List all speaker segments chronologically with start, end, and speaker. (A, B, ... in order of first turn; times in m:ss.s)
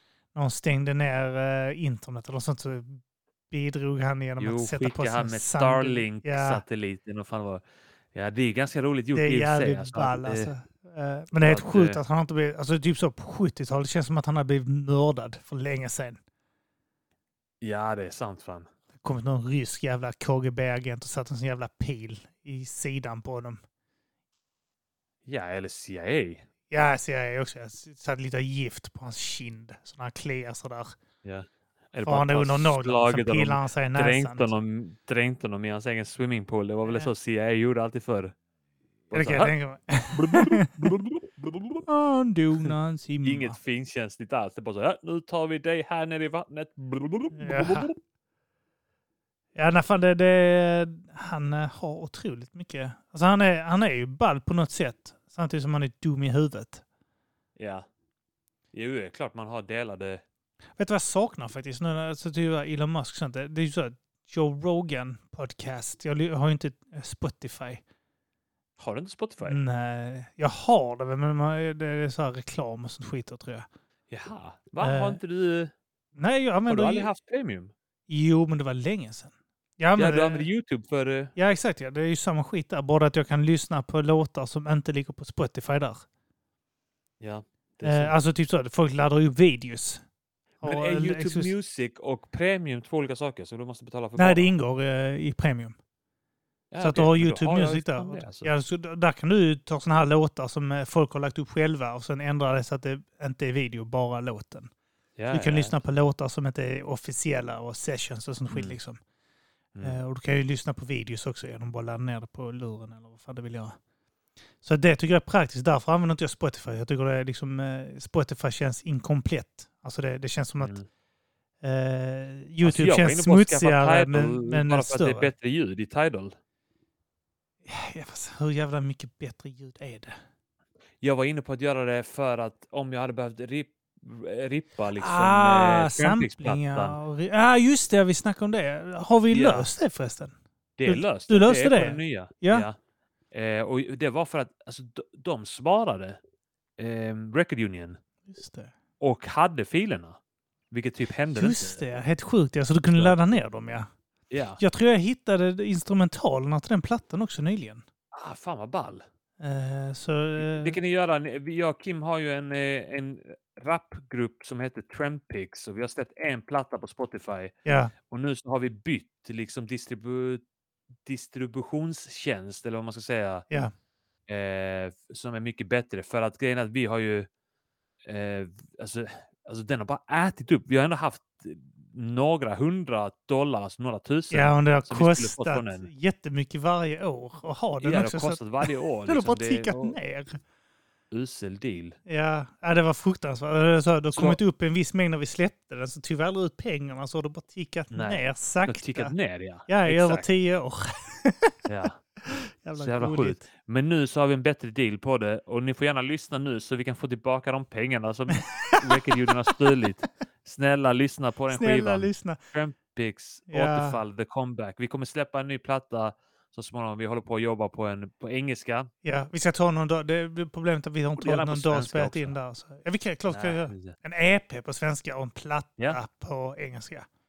0:00.3-0:03.0 A
0:03.5-0:06.6 A
0:04.4-0:10.5 B
0:09.1-0:16.2 A
0:11.4-0:12.0 B
0:17.6-0:18.7 B
0:19.0-0:23.6 A
0:25.2-0:26.4 B
0:26.7-0:30.9 A
0:31.2-0:38.3 B
0:32.0-0:34.5 A
0:36.8-0:37.1 A
0:39.1-0:39.5 B
0:39.1-0:40.7 A
0:40.1-0:41.8 B
0:41.9-0:43.6 A
0:43.2-0:47.9 B
0:47.3-0:47.9 A
0:49.5-0:56.8 A
0:57.6-0:57.8 B
0:58.7-1:00.2 B
1:00.8-1:07.8 A
1:08.8-1:09.6 B
1:09.4-1:13.7 A
1:14.1-1:15.7 B
1:14.8-1:15.2 A
1:16.2-1:17.1 A
1:16.7-1:17.7 B
1:18.1-1:20.5 A
1:20.0-1:21.3 B
1:21.4-1:26.0 A
1:27.2-1:28.1 B
1:27.8-1:30.0 A
1:30.6-1:31.5 A
1:30.6-1:34.5 B
1:34.2-1:35.8 A
1:36.7-1:38.5 B
1:36.8-1:44.7 A
1:45.2-1:45.7 B
1:45.3-1:49.0 A
1:48.5-1:48.8 B
1:49.7-1:50.0 B
1:49.8-1:53.8 A
1:54.6-2:00.8 A
2:00.6-2:00.9 B
2:01.6-2:05.3 A
2:02.6-2:06.3 B
2:07.6-2:10.2 A
2:11.0-2:17.0 B
2:15.0-2:20.3 A
2:19.3-2:19.7 B
2:20.8-2:22.7 B
2:20.8-2:22.7 A
2:23.3-2:26.2 B
2:26.8-2:28.0 B
2:28.3-2:28.7 A
2:29.0-2:30.2 B
2:30.7-2:32.0 B
2:31.3-2:33.9 A
2:32.9-2:33.2 B
2:34.3-2:34.6 B
2:34.6-2:37.8 A
2:38.1-2:39.0 B
2:39.4-2:40.8 A
2:40.4-2:47.5 B
2:47.6-2:47.9 A
2:48.1-2:50.4 B
2:51.0-2:53.4 B
2:54.3-2:57.3 B
2:58.0-3:05.9 B
3:04.3-3:10.4 A
3:07.8-3:10.0 B
3:11.1-3:12.0 B
3:12.1-3:19.1 A
3:14.1-3:14.4 B
3:17.9-3:20.2 B
3:19.7-3:21.5 A
3:21.7-3:22.0 B
3:22.2-3:23.4 A
3:22.8-3:38.9 B
3:28.4-3:28.8 A
3:31.5-3:32.4 A
3:33.5-3:34.0 A
3:39.0-3:47.0 A
3:41.2-3:42.4 B
3:43.3-3:43.9 B